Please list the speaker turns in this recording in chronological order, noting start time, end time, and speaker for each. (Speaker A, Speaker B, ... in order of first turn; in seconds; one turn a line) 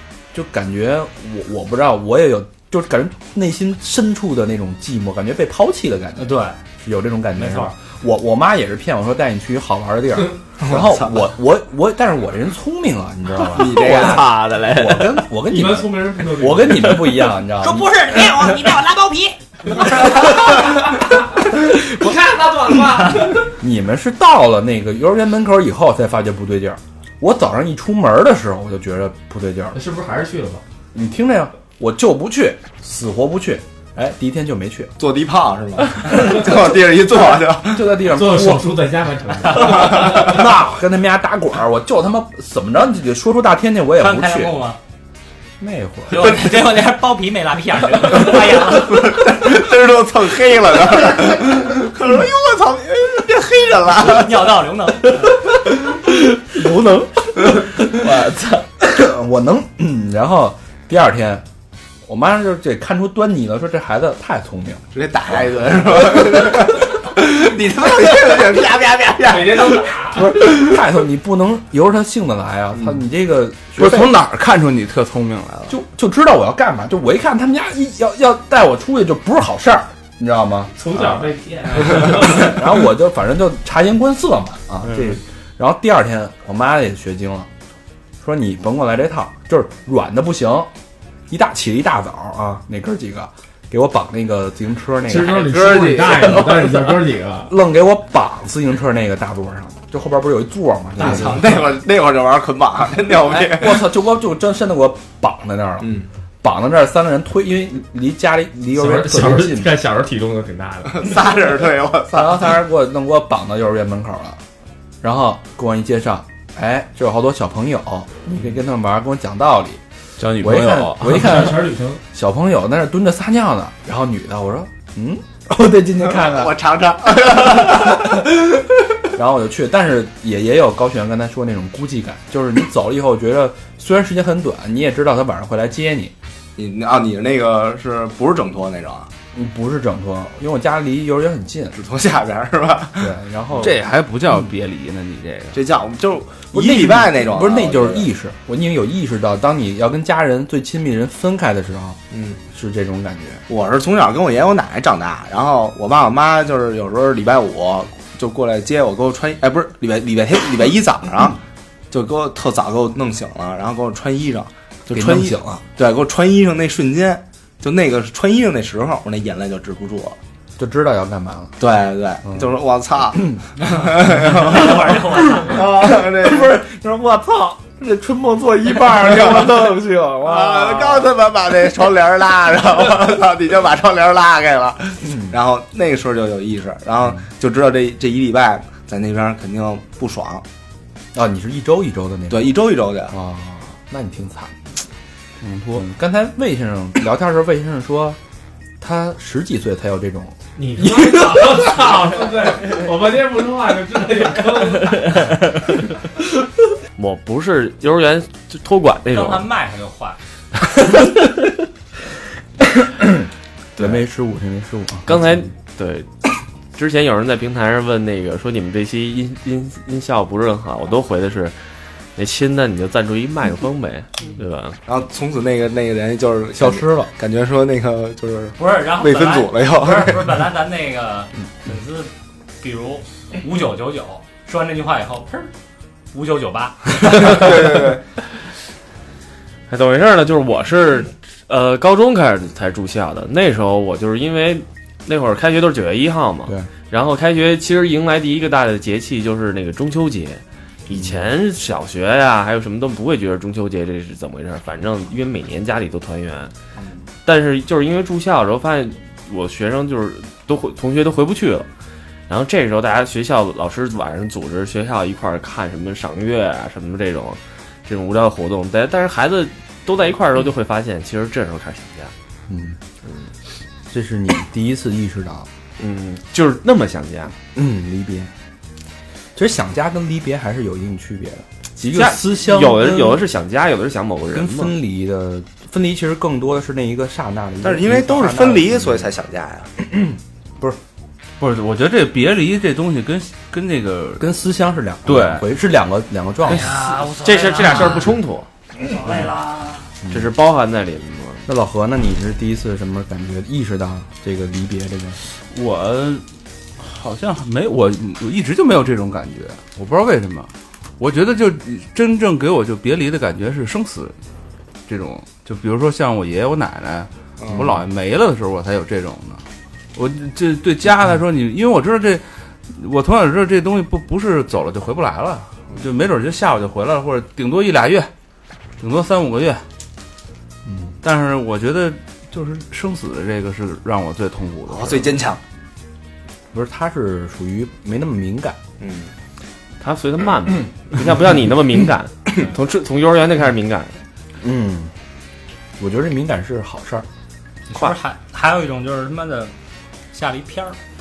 Speaker A: 0.3-18.6
Speaker B: 6.2-6.6
Speaker B: 7.4-7.7
Speaker C: 10.6-11.2
Speaker C: 13.5-14.4
Speaker D: 13.7-15.2
Speaker E: 15.4-17.2
Speaker B: 17.6-19.4
Speaker E: 19.8-23.5
Speaker A: 23.5-29.8
Speaker E: 29.7-30.6
Speaker A: 30.9-34.9
Speaker C: 35.0-38.0
Speaker A: 37.6-38.7
Speaker E: 38.0-40.4
Speaker A: 39.6-44.5
Speaker C: 39.7-40.3
Speaker B: 44.0-44.8
Speaker A: 45.6-46.4
Speaker B: 46.1-49.1
Speaker C: 48.5-54.5
Speaker B: 54.0-55.3
Speaker A: 56.6-61.5
Speaker A: 62.1-64.8
Speaker C: 64.9-69.9
Speaker A: 66.0-66.4
Speaker E: 69.2-70.4
Speaker A: 70.1-74.1
Speaker F: 73.8-75.7
Speaker A: 75.7-87.5
Speaker E: 80.8-82.6
Speaker A: 88.2-90.7
Speaker A: 91.3-96.8
Speaker E: 95.1-97.5
Speaker A: 97.5-101.6
Speaker C: 101.0-103.8
Speaker E: 101.1-101.4
Speaker A: 103.2-109.8
Speaker C: 105.8-106.1
Speaker E: 108.7-111.1
Speaker C: 110.9-112.5
Speaker A: 112.1-114.4
Speaker A: 115.0-119.8
Speaker F: 120.2-121.3
Speaker A: 120.4-126.6
Speaker E: 121.0-122.0
Speaker C: 126.2-128.3
Speaker A: 127.6-128.2
Speaker A: 129.1-136.1
Speaker C: 136.6-139.1
Speaker A: 139.3-141.8
Speaker C: 141.7-143.8
Speaker A: 143.0-143.8
Speaker F: 143.6-145.6
Speaker C: 145.5-148.1
Speaker A: 146.5-152.0
Speaker C: 152.1-152.4
Speaker A: 152.5-153.4
Speaker C: 153.5-170.2
Speaker A: 164.9-165.6
Speaker A: 170.6-171.6
Speaker C: 171.6-176.6
Speaker A: 172.3-172.5
Speaker A: 173.2-173.4
Speaker B: 173.7-175.6
Speaker A: 175.6-181.1
Speaker C: 179.0-179.6
Speaker C: 180.2-190.4
Speaker A: 185.0-185.4
Speaker A: 191.1-192.6
Speaker C: 192.3-193.2
Speaker A: 193.1-194.7
Speaker F: 195.4-195.9
Speaker A: 195.8-198.2
Speaker A: 198.8-201.5
Speaker E: 200.6-205.2
Speaker D: 207.0-209.5
Speaker B: 209.1-210.2
Speaker A: 212.8-213.3
Speaker A: 213.8-215.5
Speaker D: 215.1-216.1
Speaker D: 216.8-221.6
Speaker D: 222.2-224.8
Speaker C: 224.9-230.4
Speaker A: 226.6-227.1
Speaker B: 228.6-235.5
Speaker B: 236.1-237.4
Speaker C: 237.1-238.0
Speaker D: 239.7-256.5
Speaker A: 250.9-251.2
Speaker D: 257.2-261.7
Speaker D: 262.3-272.1
Speaker A: 272.5-272.8
Speaker A: 273.9-275.5
Speaker D: 275.8-277.4
Speaker A: 277.6-278.3
Speaker A: 279.4-283.2
Speaker D: 281.9-284.8
Speaker A: 284.3-289.1
Speaker C: 287.6-289.7
Speaker A: 289.8-290.8
Speaker F: 291.4-294.3
Speaker A: 294.2-296.7
Speaker F: 295.1-295.5
Speaker B: 296.5-298.1
Speaker D: 297.2-298.5
Speaker B: 298.9-299.8
Speaker A: 300.0-300.3
Speaker D: 300.1-301.5
Speaker A: 301.5-305.2
Speaker F: 305.4-306.2
Speaker F: 306.8-314.1
Speaker F: 314.9-319.4
Speaker C: 317.4-317.8
Speaker F: 319.9-328.1
Speaker F: 328.8-329.6
Speaker A: 330.7-331.0
Speaker F: 331.0-335.1
Speaker C: 334.7-335.4
Speaker A: 336.5-338.6
Speaker C: 338.8-339.1
Speaker D: 339.8-344.0
Speaker A: 344.4-344.9
Speaker A: 345.8-347.1
Speaker B: 347.7-349.5
Speaker B: 350.1-350.8